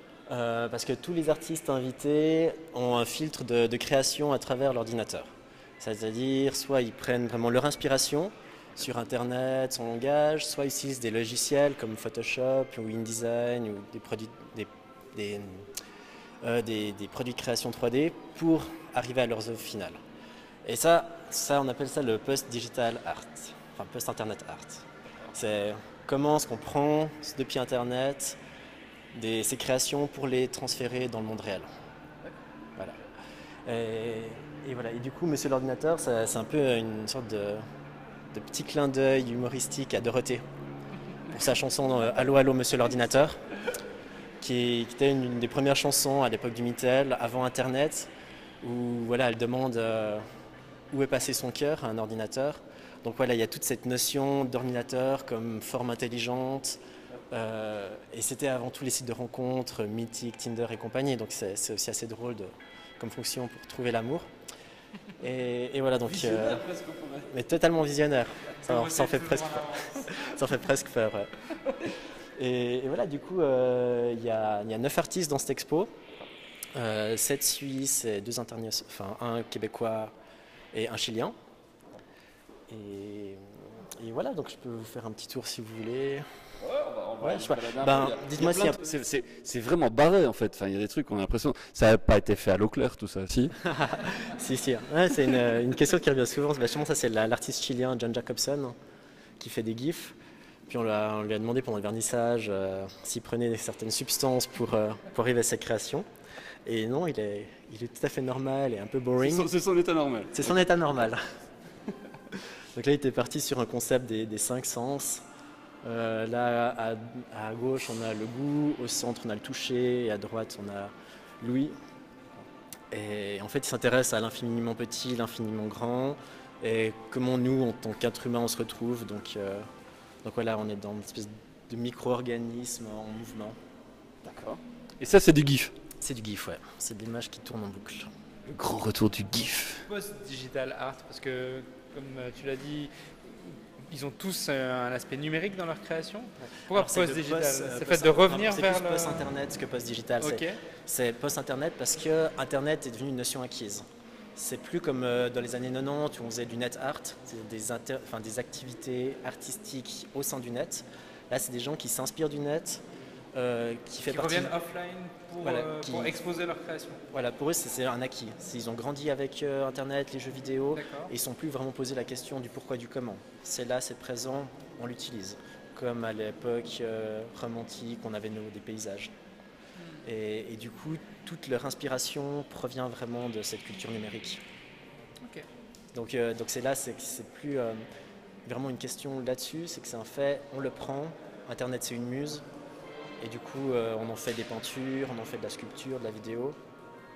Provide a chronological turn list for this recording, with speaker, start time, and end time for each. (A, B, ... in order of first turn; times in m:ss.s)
0:00.3-0:05.3 A
0:05.8-0:15.7 A
0:16.4-0:20.0 A
0:20.6-0:28.4 A
0:29.1-0:31.7 A
0:33.7-0:37.6 A
0:38.3-0:40.4 A
0:41.3-0:43.4 A
0:44.4-0:48.1 A
0:48.6-0:50.2 A
0:50.9-0:56.8 A
0:57.3-1:04.3 A
1:05.2-1:06.7 A
1:06.1-1:07.3 B
1:07.3-1:11.3 A
1:08.6-1:10.3 C
1:12.4-1:15.9 A
1:16.8-1:20.1 A
1:20.7-1:21.3 A
1:22.7-1:26.3 A
1:26.6-1:33.6 B
1:27.2-1:28.8 A
1:33.5-1:38.8 A
1:39.4-1:40.2 A
1:40.7-1:46.1 A
1:46.6-1:49.5 A
1:49.2-1:50.5 B
1:50.3-1:51.2 A
1:52.8-1:55.2 A
1:55.8-2:01.8 A
2:02.9-2:09.6 A
2:10.2-2:13.6 A
2:14.2-2:15.7 B
2:16.0-2:18.1 A
2:18.5-2:19.8 B
2:19.9-2:29.3 C
2:26.4-2:33.8 A
2:30.2-2:30.6 C
2:34.4-2:42.8 A
2:43.3-2:44.5 A
2:44.1-2:47.0 C
2:45.4-2:46.2 A
2:47.1-2:59.1 A
2:50.7-2:51.1 C
3:00.0-3:04.4 A
3:05.9-3:07.8 A
3:08.5-3:12.4 A
3:13.2-3:16.6 A